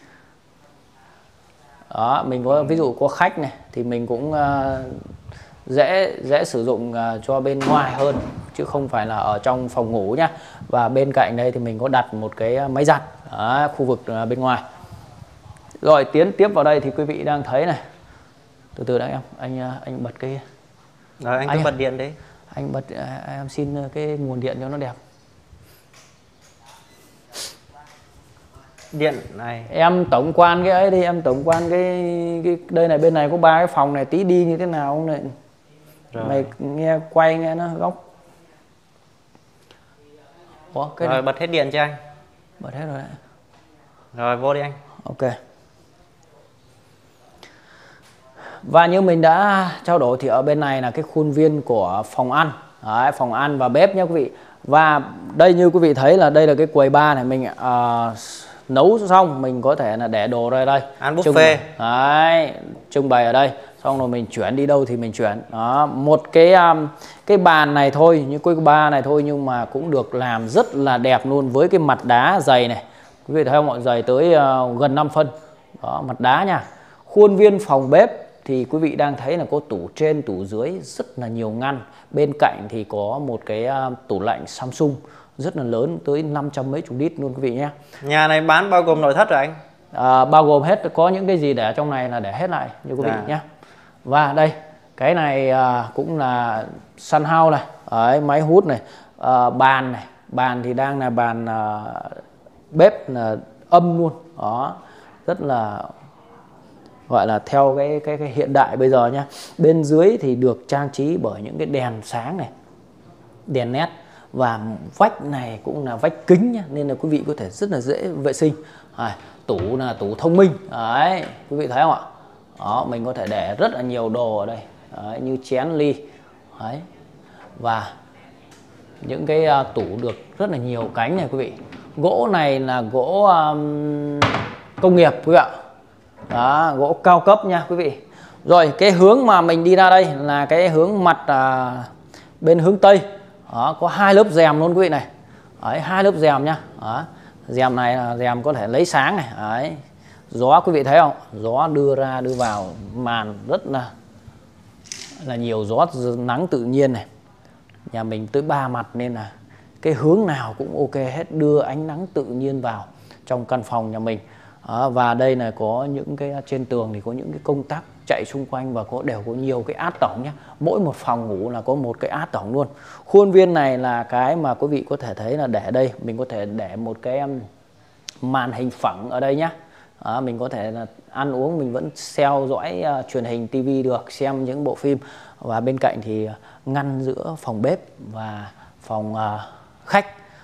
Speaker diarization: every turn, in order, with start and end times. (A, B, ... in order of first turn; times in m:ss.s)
0:01.9-0:05.0 A
0:05.7-0:14.6 A
0:15.8-0:17.8 A
0:18.8-0:20.4 A
0:21.2-0:22.2 B
0:21.5-0:21.7 A
0:22.5-0:25.0 A
0:28.9-0:29.7 B
0:29.7-0:35.3 A
0:36.1-0:36.4 B
0:36.2-0:38.0 A
0:40.7-0:41.2 A
0:41.0-0:42.0 B
0:42.6-0:43.2 A
0:44.1-0:44.8 B
0:45.0-0:45.4 A
0:48.6-1:27.7 A
1:01.0-1:01.6 B
1:28.0-1:29.6 B
1:29.9-1:33.4 A
1:33.0-1:33.3 B
1:34.0-1:45.9 A
1:47.1-1:52.5 A
1:53.5-2:02.0 A
2:02.6-2:06.0 A
2:06.6-2:06.8 A
2:07.6-2:07.9 A
2:09.0-2:15.5 A
2:16.3-2:21.9 A
2:22.4-2:25.1 A
2:25.6-2:29.8 A
2:30.3-2:33.9 A
2:35.2-2:37.0 A
2:37.9-2:39.3 A
2:39.8-2:57.4 A
2:58.2-3:10.1 A